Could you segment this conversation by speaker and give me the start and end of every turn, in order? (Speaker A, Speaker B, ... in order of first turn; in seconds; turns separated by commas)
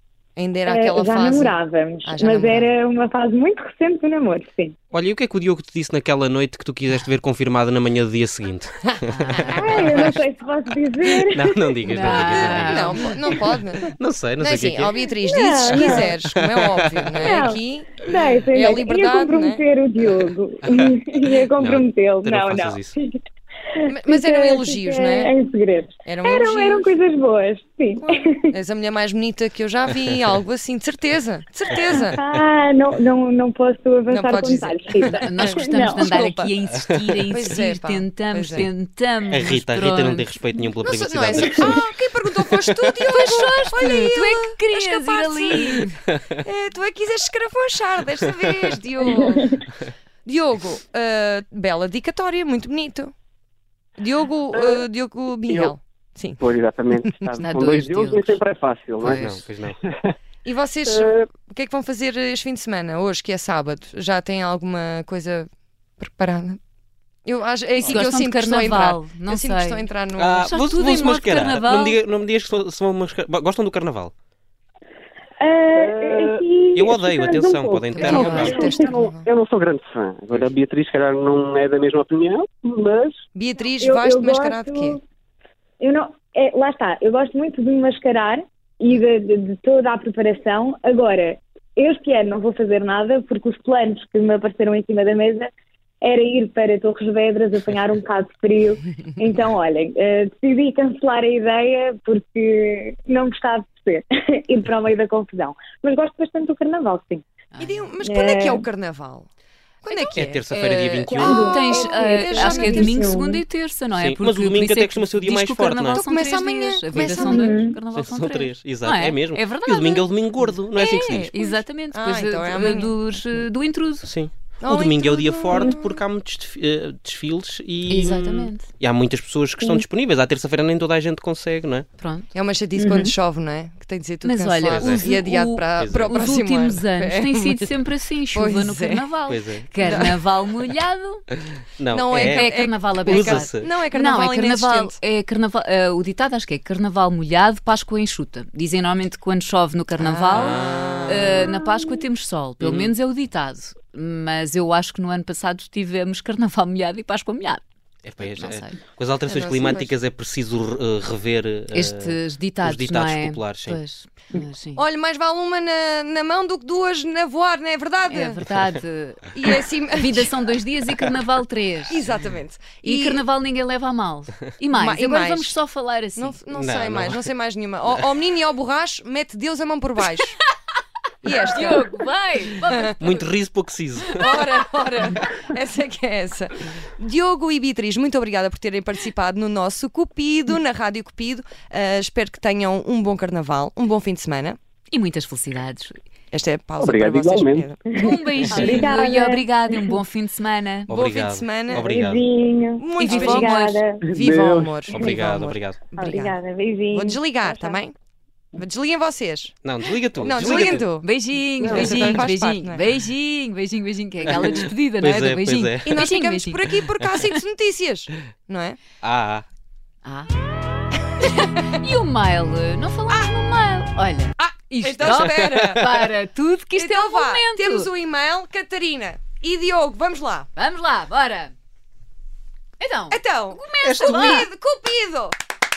Speaker A: 0.4-2.7, Speaker B: 0.6-4.8, Speaker C: 4.9-9.9, Speaker D: 9.1-10.1, Speaker B: 9.5-12.3, Speaker C: 11.3-13.0, Speaker D: 11.8-13.4, Speaker A: 12.1-13.9, Speaker C: 13.9-15.1, Speaker A: 14.4-19.6, Speaker B: 15.2-16.2, Speaker C: 15.7-17.3, Speaker B: 17.1-23.2, Speaker C: 21.6-22.9, Speaker B: 23.7-28.6, Speaker A: 23.9-25.3, Speaker A: 26.1-26.9, Speaker A: 28.0-32.2, Speaker B: 32.1-36.3, Speaker A: 34.1-36.5, Speaker D: 35.2-40.3, Speaker A: 37.3-38.7, Speaker C: 39.3-41.9, Speaker A: 40.8-45.8, Speaker B: 41.4-41.8, Speaker D: 43.1-46.0, Speaker A: 46.4-49.6, Speaker B: 49.2-49.6, Speaker A: 50.2-53.1, Speaker A: 54.0-56.4, Speaker E: 54.5-54.8, Speaker E: 55.4-55.7, Speaker E: 56.4-59.3, Speaker D: 57.4-58.4, Speaker D: 59.0-59.4, Speaker C: 59.0-59.8, Speaker E: 59.8-60.1, Speaker A: 60.4-65.5, Speaker E: 60.9-61.3, Speaker A: 66.0-66.6, Speaker A: 67.2-70.5, Speaker D: 67.8-69.9, Speaker C: 70.2-74.1, Speaker D: 70.5-72.0, Speaker B: 75.4-79.0, Speaker E: 75.8-76.9, Speaker C: 76.8-78.7, Speaker D: 77.9-78.7, Speaker E: 78.3-83.1, Speaker A: 78.4-79.3, Speaker A: 83.3-85.0, Speaker B: 83.8-85.0, Speaker B: 85.8-95.5, Speaker B: 96.0-107.2, Speaker D: 107.5-107.9, Speaker A: 107.6-109.3, Speaker B: 108.0-108.7, Speaker A: 109.8-110.4, Speaker D: 109.9-120.1, Speaker C: 110.2-111.4, Speaker B: 111.1-113.4, Speaker A: 111.5-113.0, Speaker C: 114.0-116.0, Speaker A: 115.9-117.6, Speaker B: 117.1-117.8, Speaker C: 117.9-121.3, Speaker D: 120.7-124.1, Speaker A: 121.1-123.1, Speaker C: 124.0-131.8, Speaker A: 124.6-126.0, Speaker D: 127.9-128.7, Speaker D: 132.0-132.3, Speaker A: 132.3-137.7, Speaker B: 132.8-133.1, Speaker D: 134.2-141.2, Speaker C: 134.7-135.0, Speaker C: 135.8-136.2, Speaker A: 138.3-139.1, Speaker C: 139.3-139.6, Speaker A: 139.8-140.2, Speaker C: 141.8-142.5, Speaker A: 141.9-145.0, Speaker D: 142.1-157.6, Speaker C: 143.1-143.4, Speaker A: 150.0-151.5, Speaker C: 150.3-151.1, Speaker C: 152.6-152.9, Speaker C: 158.0-163.8, Speaker D: 158.2-158.8, Speaker A: 159.2-159.9, Speaker D: 161.7-164.8, Speaker A: 164.3-168.4, Speaker D: 168.1-172.1, Speaker A: 169.3-170.3, Speaker A: 171.9-173.2, Speaker D: 172.8-176.4, Speaker A: 174.7-175.6, Speaker A: 176.2-180.4, Speaker C: 176.5-177.2, Speaker A: 181.2-181.9, Speaker D: 181.4-183.3, Speaker A: 182.6-182.9, Speaker C: 183.0-184.2, Speaker A: 184.1-194.6, Speaker D: 184.2-185.2, Speaker D: 194.9-195.9, Speaker A: 196.3-197.8, Speaker E: 196.8-197.7, Speaker B: 197.8-199.9, Speaker D: 198.0-200.9, Speaker C: 198.5-198.8, Speaker A: 200.9-201.8, Speaker C: 200.9-202.2, Speaker B: 201.6-204.1, Speaker A: 202.8-206.4, Speaker D: 203.0-203.8, Speaker E: 204.0-205.1, Speaker C: 204.9-205.8, Speaker B: 205.9-207.8, Speaker A: 206.9-207.9, Speaker A: 208.6-209.6, Speaker C: 209.6-210.8, Speaker A: 210.2-211.1, Speaker D: 210.7-216.8, Speaker A: 211.6-212.8, Speaker E: 211.6-212.2, Speaker C: 214.3-215.9, Speaker A: 215.8-218.8, Speaker C: 219.0-219.4, Speaker D: 220.0-220.3, Speaker D: 221.2-227.9, Speaker A: 224.4-225.9, Speaker C: 225.0-225.7, Speaker A: 226.8-230.5, Speaker D: 230.6-231.5, Speaker D: 232.8-234.5, Speaker A: 233.1-235.3, Speaker C: 233.8-234.4